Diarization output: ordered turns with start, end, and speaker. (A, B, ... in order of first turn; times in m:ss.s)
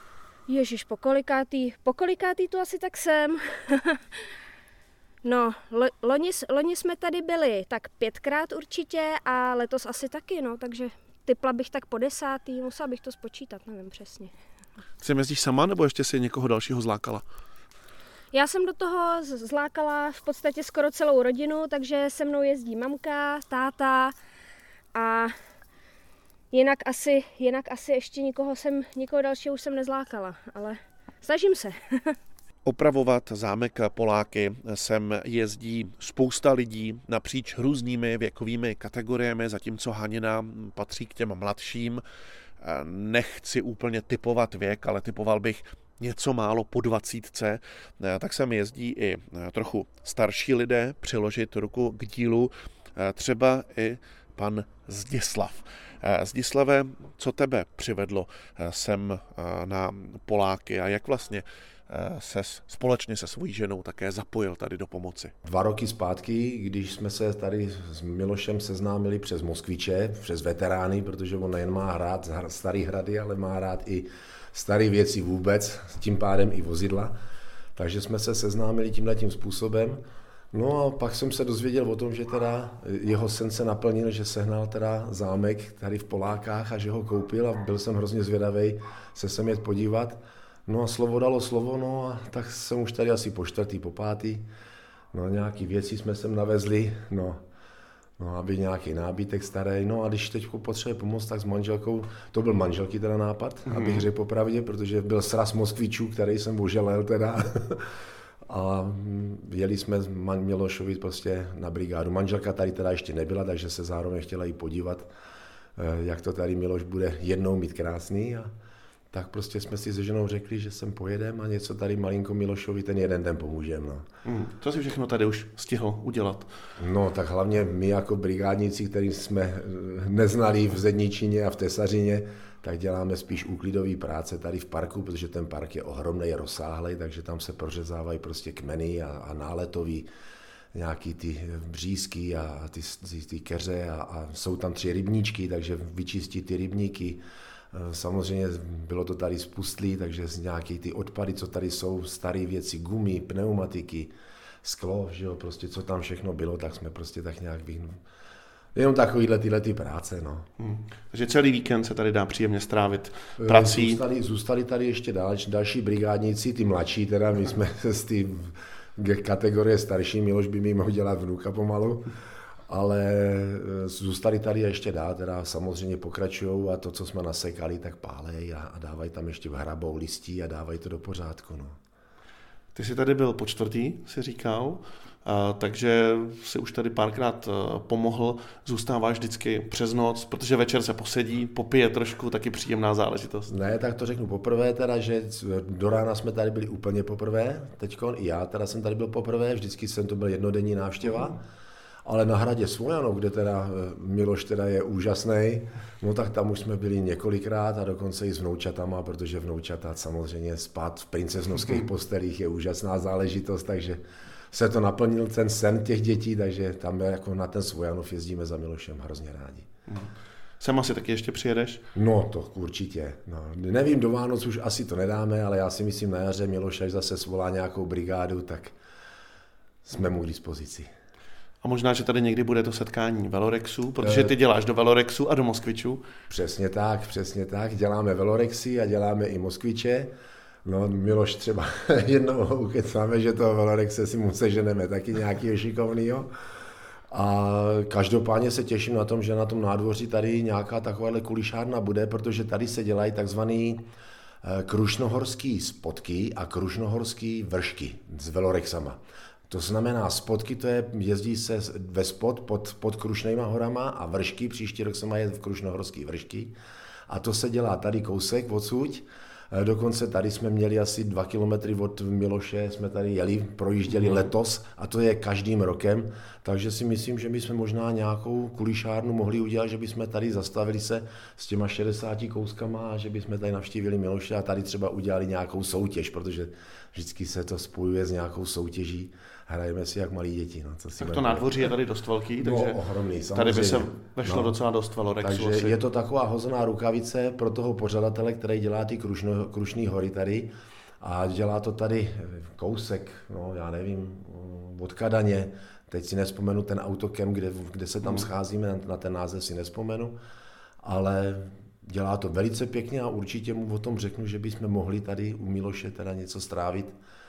0:00.5-0:04.2 A
0:05.2-0:14.3 A
0:15.0-0:17.2 B
0:18.3-0:24.2 A
0:24.9-0:25.4 A
0:26.5-0:32.2 A
0:32.6-0:42.0 B
0:42.6-1:05.3 B
1:05.4-1:17.2 C
1:17.8-1:20.0 C
1:20.5-1:34.5 C
1:35.1-1:37.4 C
1:38.2-1:47.9 C
1:43.7-1:44.1 B
1:48.5-1:55.1 C
1:55.8-1:58.5 C
1:59.1-2:04.1 C
2:04.2-2:06.5 B
2:06.8-2:20.1 C
2:20.7-2:27.2 C
2:27.7-2:38.0 C
2:38.8-2:40.5 C
2:40.6-2:44.0 B
2:43.4-2:52.1 C
2:52.7-3:01.8 C
3:02.8-3:13.5 B
3:13.5-3:21.4 C
3:22.0-3:39.7 C
3:39.9-3:41.8 B
3:42.0-3:48.8 C
3:49.8-3:50.9 C
3:51.6-3:56.0 B
3:54.0-3:54.3 C
3:56.3-4:00.1 C
4:00.6-4:06.3 C
4:07.1-4:13.8 C
4:14.4-4:26.6 C
4:27.1-4:51.6 C
4:51.0-4:52.8 B
4:52.4-4:54.6 C
4:53.3-4:55.8 B
4:55.2-5:10.2 C
5:10.8-5:17.0 C